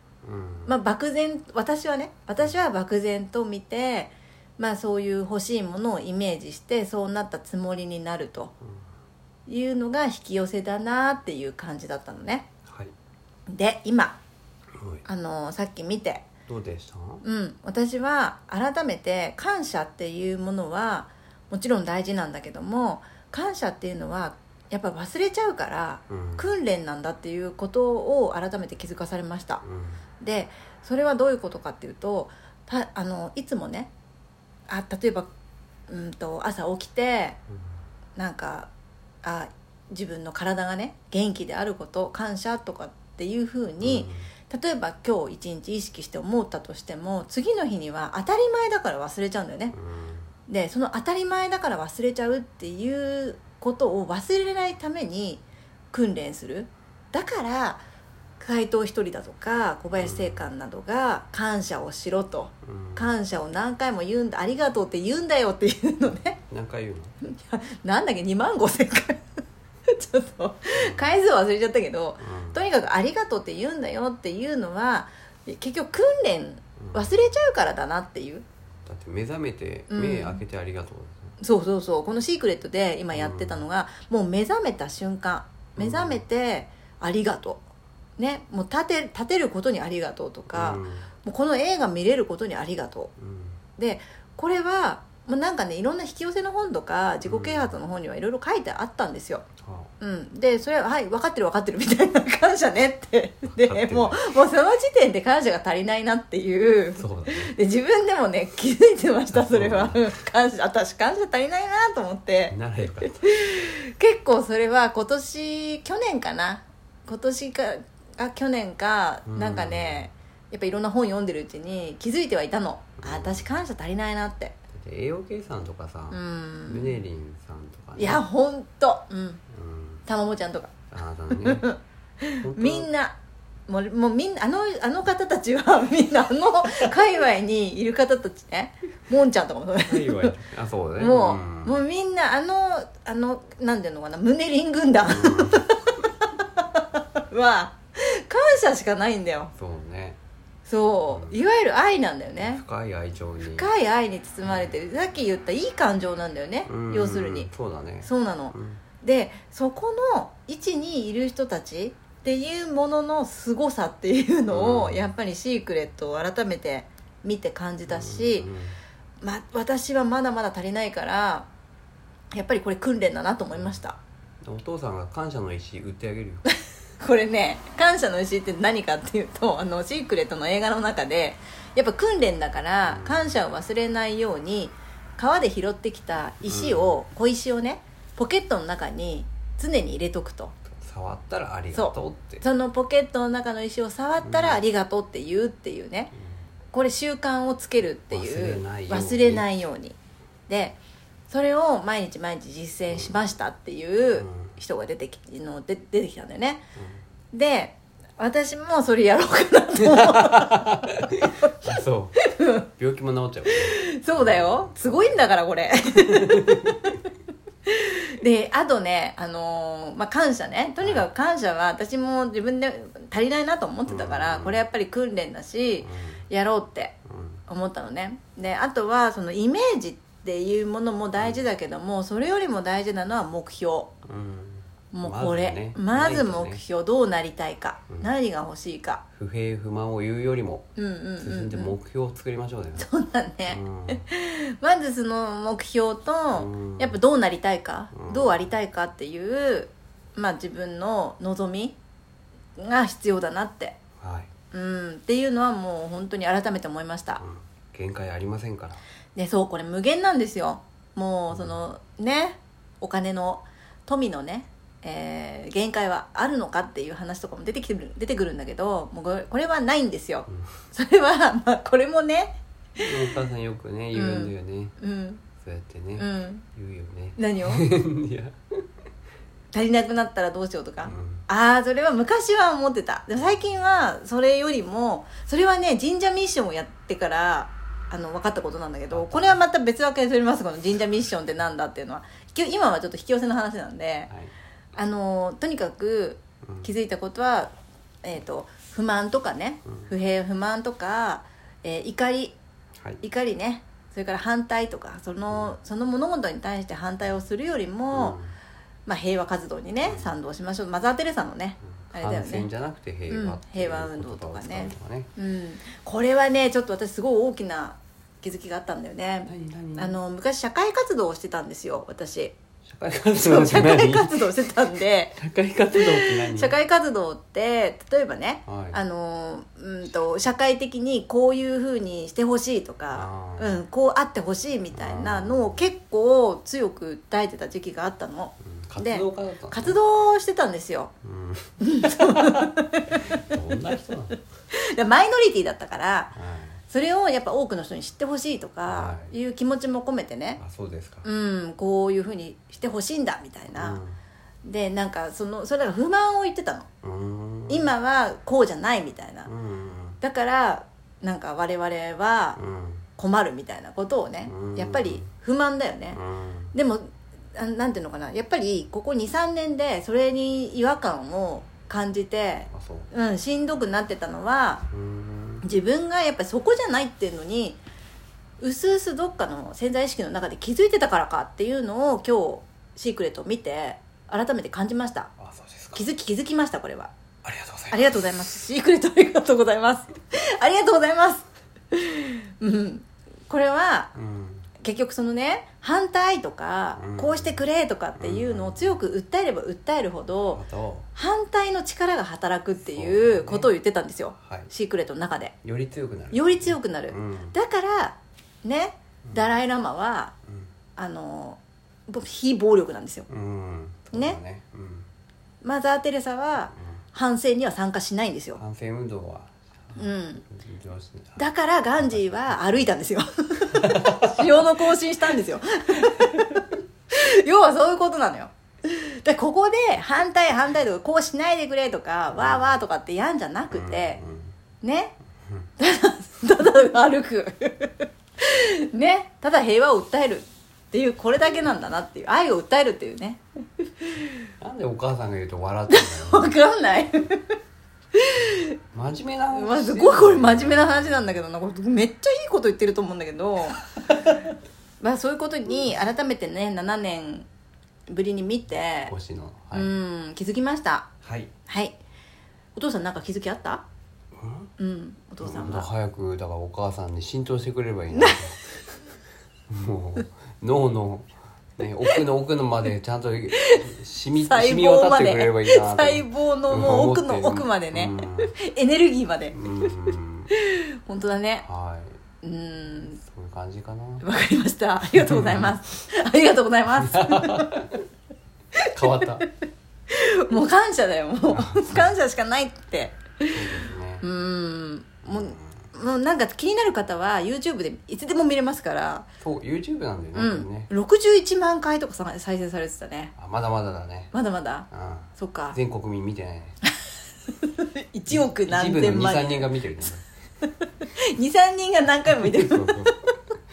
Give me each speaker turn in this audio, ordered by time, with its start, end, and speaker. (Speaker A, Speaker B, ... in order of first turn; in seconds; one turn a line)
Speaker A: 0.2-0.7
Speaker B: 0.7-8.5
Speaker B: 9.5-12.5
Speaker A: 12.7-12.9
Speaker B: 13.5-14.2
Speaker A: 14.8-15.1
Speaker B: 15.1-16.3
Speaker A: 16.5-17.2
Speaker B: 17.2-29.6
Speaker A: 26.1-26.5
Speaker A: 29.6-30.0
Speaker B: 30.2-33.9
Speaker B: 34.7-35.3
Speaker B: 35.9-37.4
Speaker B: 38.2-38.7
Speaker B: 39.2-49.8
Speaker A: 43.8-44.3
Speaker A: 49.7-50.3
Speaker B: 50.5-57.8
Speaker B: 58.4-66.4
Speaker A: 60.0-60.5
Speaker A: 62.6-63.1
Speaker A: 66.5-67.2
Speaker B: 67.2-69.2
Speaker B: 69.9-78.5
Speaker A: 70.8-71.1
Speaker A: 72.2-72.7
Speaker A: 76.8-77.2
Speaker A: 78.8-81.4
Speaker B: 79.9-80.4
Speaker B: 81.4-87.6
Speaker A: 83.1-83.7
Speaker A: 85.8-86.2
Speaker B: 88.2-93.1
Speaker A: 90.5-91.1
Speaker A: 93.2-93.6
Speaker B: 93.8-99.5
Speaker A: 97.2-97.8
Speaker A: 99.6-99.9
Speaker B: 100.0-112.6
Speaker A: 103.5-104.3
Speaker A: 107.0-107.5
Speaker A: 109.3-110.0
Speaker A: 112.5-113.3
Speaker B: 113.2-124.6
Speaker A: 119.3-120.1
Speaker A: 123.0-123.5
Speaker A: 124.7-128.2
Speaker B: 126.1-127.0
Speaker B: 128.0-129.4
Speaker A: 129.5-130.0
Speaker B: 130.1-130.8
Speaker A: 130.9-131.7
Speaker B: 131.3-133.2
Speaker A: 132.4-132.9
Speaker B: 133.7-140.3
Speaker A: 139.9-141.8
Speaker B: 141.0-149.5
Speaker A: 145.1-145.7
Speaker A: 149.6-150.2
Speaker B: 150.7-152.6
Speaker A: 151.1-151.4
Speaker A: 152.4-153.7
Speaker B: 153.5-157.5
Speaker A: 154.4-154.7
Speaker A: 156.7-158.8
Speaker B: 158.0-168.5
Speaker A: 164.5-165.1
Speaker A: 167.9-168.8
Speaker B: 169.2-171.5
Speaker B: 172.3-174.0
Speaker A: 174.4-176.4
Speaker B: 176.5-190.6
Speaker A: 182.8-183.3
Speaker A: 186.4-187.0
Speaker A: 190.7-192.4
Speaker B: 191.7-196.1
Speaker A: 194.2-194.6
Speaker B: 196.7-200.0
Speaker A: 198.1-199.5
Speaker B: 200.5-200.8
Speaker B: 201.3-206.6
Speaker A: 202.9-203.2
Speaker A: 204.2-204.6
Speaker B: 207.3-212.7
Speaker A: 209.9-215.3
Speaker B: 213.5-216.9
Speaker A: 216.1-216.9
Speaker B: 217.7-227.0
Speaker A: 220.8-221.1
Speaker A: 223.9-224.6
Speaker A: 225.8-226.2
Speaker A: 227.1-227.4
Speaker B: 227.5-233.9
Speaker A: 231.2-231.4
Speaker A: 234.1-236.6
Speaker B: 234.9-239.0
Speaker A: 239.2-240.7
Speaker B: 240.8-241.8
Speaker A: 241.2-242.9
Speaker B: 242.8-251.8
Speaker A: 243.5-244.1
Speaker A: 246.3-247.0
Speaker A: 247.9-248.5
Speaker B: 252.6-253.8
Speaker A: 254.0-254.3
Speaker B: 254.5-257.2
Speaker A: 257.2-258.8
Speaker B: 259.1-273.2
Speaker A: 261.3-261.6
Speaker A: 272.8-274.8
Speaker B: 273.9-275.2
Speaker A: 275.4-278.6
Speaker B: 276.0-276.4
Speaker B: 277.2-277.6
Speaker B: 279.5-294.1
Speaker A: 280.9-281.3
Speaker A: 288.9-289.4
Speaker B: 294.8-297.5
Speaker A: 296.4-296.7
Speaker B: 298.0-302.4
Speaker B: 303.0-308.2
Speaker A: 305.3-305.6
Speaker A: 307.9-308.4
Speaker B: 308.9-312.5
Speaker A: 309.8-310.2
Speaker A: 311.8-315.1
Speaker B: 313.1-322.4
Speaker A: 319.3-320.0
Speaker A: 322.6-324.4
Speaker B: 323.2-325.2
Speaker A: 325.2-326.6
Speaker B: 325.7-340.9
Speaker A: 328.5-328.8
Speaker A: 332.9-333.6
Speaker A: 334.7-335.6
Speaker A: 338.4-339.8
Speaker A: 341.0-344.2
Speaker B: 341.6-343.4
Speaker B: 344.6-346.1
Speaker A: 346.1-346.6
Speaker B: 346.7-350.4
Speaker A: 348.7-349.1
Speaker A: 350.4-351.1
Speaker B: 351.1-353.8
Speaker A: 353.5-354.0
Speaker B: 354.4-356.7
Speaker A: 356.8-357.7
Speaker B: 357.5-359.3
Speaker A: 359.2-360.0
Speaker B: 360.0-362.4
Speaker A: 362.4-362.9
Speaker B: 363.0-366.0
Speaker A: 364.2-365.1
Speaker A: 365.9-366.5
Speaker B: 366.5-374.6
Speaker A: 372.5-372.9
Speaker A: 374.7-375.5
Speaker B: 375.4-377.6
Speaker B: 378.4-385.1
Speaker A: 385.2-385.9
Speaker B: 385.8-386.9
Speaker A: 387.2-388.1
Speaker B: 387.7-393.9
Speaker A: 393.9-394.5
Speaker B: 394.6-400.4
Speaker A: 396.8-397.4
Speaker A: 398.0-398.8
Speaker A: 400.3-400.9
Speaker B: 400.9-405.4
Speaker A: 402.7-403.5
Speaker A: 404.2-404.5
Speaker A: 405.4-407.3
Speaker B: 406.1-410.1
Speaker A: 409.1-409.4
Speaker B: 410.8-413.1
Speaker A: 413.1-414.9
Speaker B: 413.9-414.2
Speaker B: 415.4-418.4
Speaker A: 418.4-421.2
Speaker B: 419.8-420.2
Speaker B: 421.2-434.0
Speaker A: 421.8-422.6
Speaker A: 423.6-424.4
Speaker A: 432.1-432.5
Speaker A: 433.5-434.3
Speaker B: 434.6-434.9
Speaker B: 435.6-443.9
Speaker A: 444.4-446.4
Speaker B: 445.7-447.4
Speaker B: 448.0-448.5
Speaker A: 448.7-451.1
Speaker B: 449.3-453.6
Speaker B: 454.8-457.3
Speaker B: 457.9-458.9
Speaker A: 458.9-459.7
Speaker B: 459.5-460.9
Speaker A: 461.0-461.3
Speaker B: 461.5-461.8
Speaker B: 462.6-463.6
Speaker A: 464.1-464.5
Speaker B: 464.6-465.7
Speaker A: 465.2-468.6
Speaker A: 469.5-478.3
Speaker B: 473.3-473.7
Speaker B: 474.2-479.4
Speaker A: 479.3-480.3
Speaker B: 480.3-481.5
Speaker A: 481.4-482.0
Speaker B: 482.2-483.0
Speaker A: 483.0-484.1
Speaker B: 484.0-487.6
Speaker A: 484.9-485.6
Speaker A: 486.8-487.8
Speaker B: 488.6-489.3
Speaker A: 488.7-489.2
Speaker B: 489.9-499.1
Speaker A: 491.3-491.9
Speaker A: 493.3-494.1
Speaker A: 495.1-495.7
Speaker A: 499.2-500.7
Speaker B: 500.1-503.1
Speaker A: 503.2-504.1
Speaker B: 504.1-505.6
Speaker A: 504.7-506.6
Speaker B: 507.4-509.6
Speaker A: 508.1-510.1
Speaker B: 510.4-513.1
Speaker A: 512.1-513.0